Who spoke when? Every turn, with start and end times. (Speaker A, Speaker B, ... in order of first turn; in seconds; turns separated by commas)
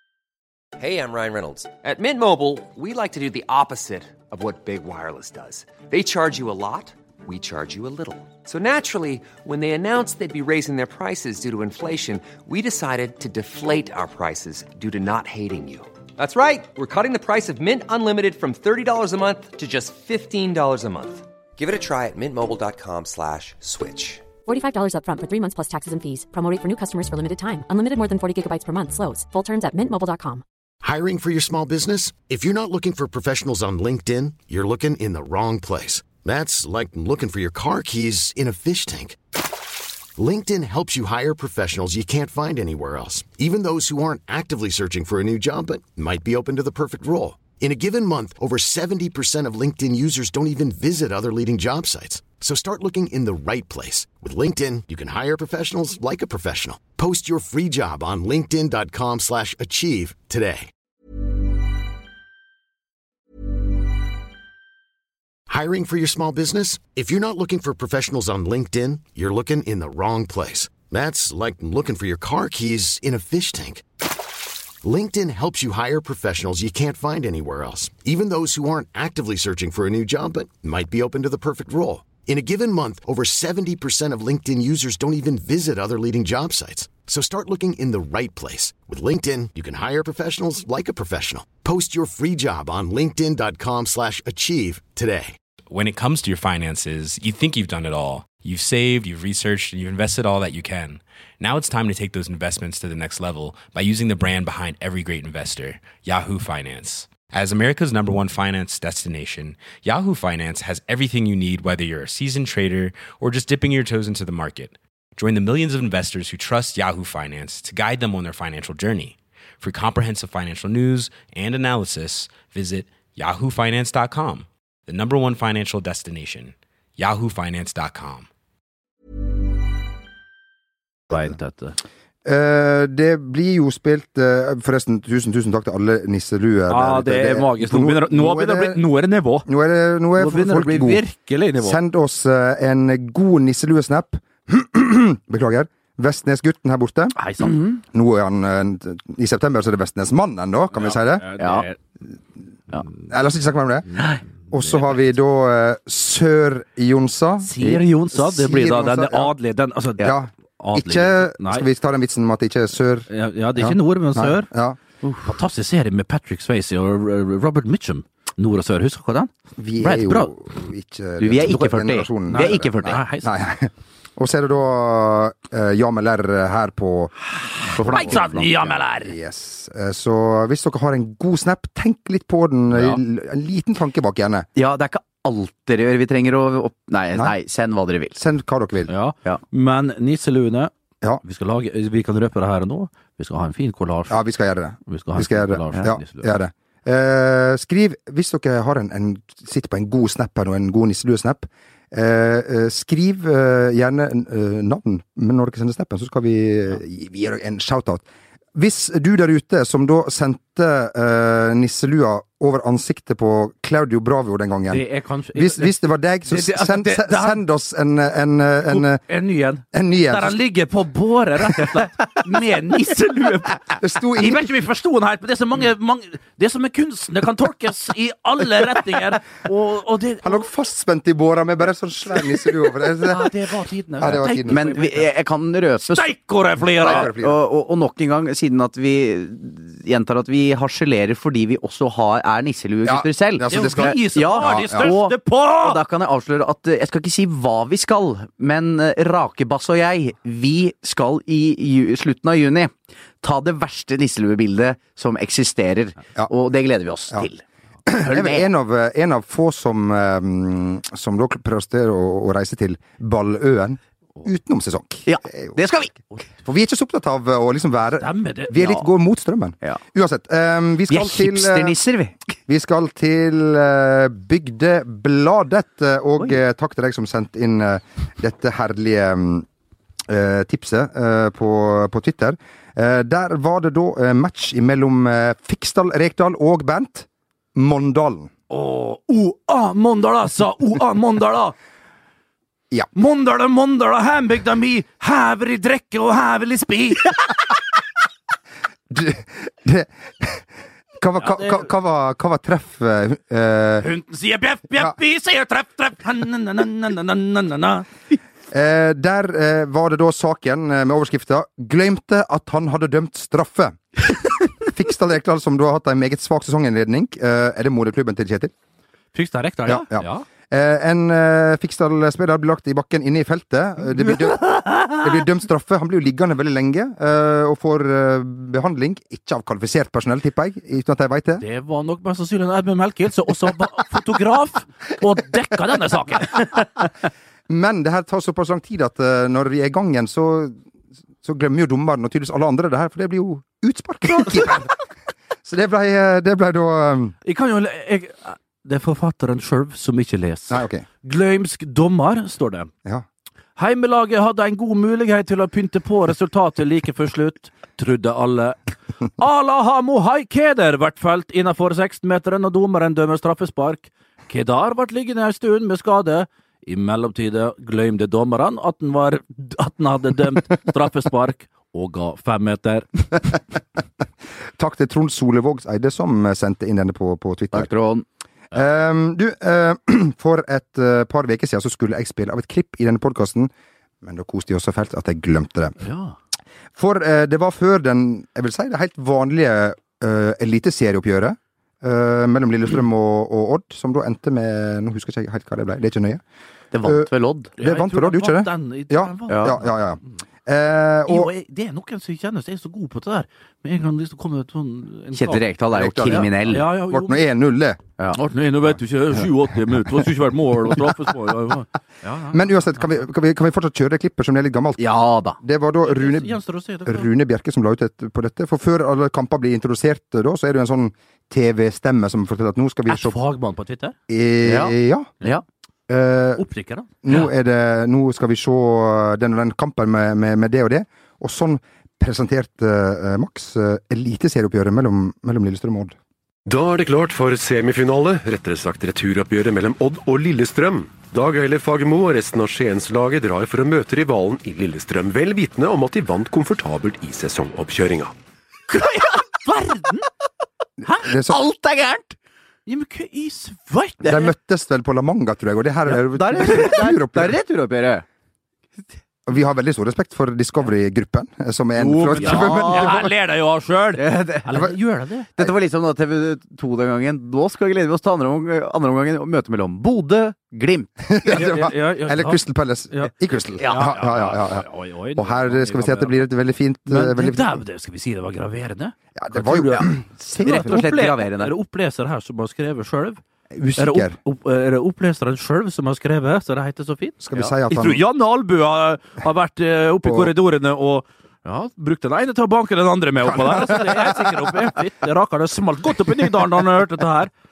Speaker A: 0.8-24.3, Speaker B: 24.4-30.4, Speaker C: 30.8-39.2, Speaker C: 40.2-60.7, Speaker C: 65.5-73.8, Speaker C: 74.8-95.3, Speaker D: 95.7-128.3, Speaker E: 131.1-131.8, Speaker F: 132.2-138.8, Speaker E: 136.7-139.5, Speaker F: 139.4-141.0, Speaker E: 140.2-141.8, Speaker F: 141.6-147.2, Speaker E: 147.2-147.6, Speaker F: 147.7-151.2, Speaker E: 150.7-151.8, Speaker G: 151.4-151.7, Speaker F: 153.1-153.9, Speaker F: 154.5-159.3, Speaker E: 157.4-161.7, Speaker F: 160.0-164.8, Speaker E: 163.1-164.5, Speaker E: 165.2-170.3, Speaker F: 169.6-177.1, Speaker G: 171.2-173.0, Speaker E: 172.3-173.3, Speaker F: 177.7-184.5, Speaker G: 177.7-178.4, Speaker E: 177.9-179.2, Speaker G: 184.6-188.2, Speaker F: 188.2-188.9, Speaker E: 188.9-190.7, Speaker E: 191.2-194.2, Speaker F: 194.1-219.0, Speaker E: 194.8-196.3, Speaker E: 214.7-215.7, Speaker E: 216.2-217.4, Speaker E: 218.7-230.4, Speaker F: 219.7-220.4, Speaker F: 223.8-224.5, Speaker F: 230.2-233.3, Speaker E: 233.0-235.1, Speaker F: 234.0-234.6, Speaker G: 234.4-236.1, Speaker E: 235.9-237.1, Speaker F: 236.7-237.4, Speaker G: 236.8-257.4, Speaker F: 242.8-245.0, Speaker E: 243.5-245.8, Speaker F: 257.9-265.6, Speaker G: 257.9-258.5, Speaker G: 265.1-265.9, Speaker F: 266.4-271.8, Speaker E: 268.0-268.8, Speaker G: 270.9-272.1, Speaker F: 272.5-279.4, Speaker F: 280.1-288.3, Speaker E: 288.5-291.5, Speaker E: 292.9-297.3, Speaker F: 298.9-300.4, Speaker F: 301.0-303.9, Speaker E: 301.2-301.7, Speaker E: 303.8-307.9, Speaker F: 308.5-318.5, Speaker E: 319.1-320.3, Speaker F: 319.6-331.4, Speaker E: 324.5-325.0, Speaker E: 331.4-336.7, Speaker F: 337.5-340.6, Speaker F: 341.2-344.8, Speaker F: 345.4-347.1, Speaker E: 347.2-352.7, Speaker F: 350.5-350.8, Speaker E: 353.6-358.6, Speaker E: 359.2-373.4, Speaker F: 374.6-377.7, Speaker G: 377.5-378.0, Speaker F: 378.5-383.5, Speaker F: 384.0-385.8, Speaker E: 385.8-386.1, Speaker F: 386.8-396.2, Speaker G: 396.7-397.5, Speaker F: 396.8-401.3, Speaker E: 397.6-399.7, Speaker G: 399.3-399.5, Speaker E: 401.1-407.2, Speaker G: 405.1-406.7, Speaker F: 405.7-407.8, Speaker E: 408.1-412.9, Speaker F: 412.3-414.8, Speaker G: 414.8-415.4, Speaker F: 415.4-423.2, Speaker E: 415.8-417.1, Speaker E: 422.9-423.9, Speaker F: 424.1-425.1, Speaker G: 424.4-425.4, Speaker F: 425.9-426.4, Speaker E: 426.4-427.3, Speaker F: 427.0-435.9, Speaker H: 436.4-448.1, Speaker E: 448.7-450.1, Speaker F: 450.8-451.4, Speaker G: 451.2-452.1, Speaker E: 452.6-454.3, Speaker F: 454.0-457.4, Speaker G: 455.9-458.0, Speaker F: 459.3-463.1, Speaker E: 461.8-465.3, Speaker G: 462.0-463.0, Speaker G: 464.0-464.5, Speaker G: 465.4-470.9, Speaker F: 471.1-477.6, Speaker E: 471.2-476.2, Speaker E: 476.9-479.9, Speaker F: 479.1-480.8, Speaker G: 480.4-481.5, Speaker E: 480.4-483.2, Speaker F: 483.5-484.2, Speaker E: 483.8-497.3, Speaker F: 487.2-488.0, Speaker F: 490.0-490.3, Speaker F: 493.2-494.4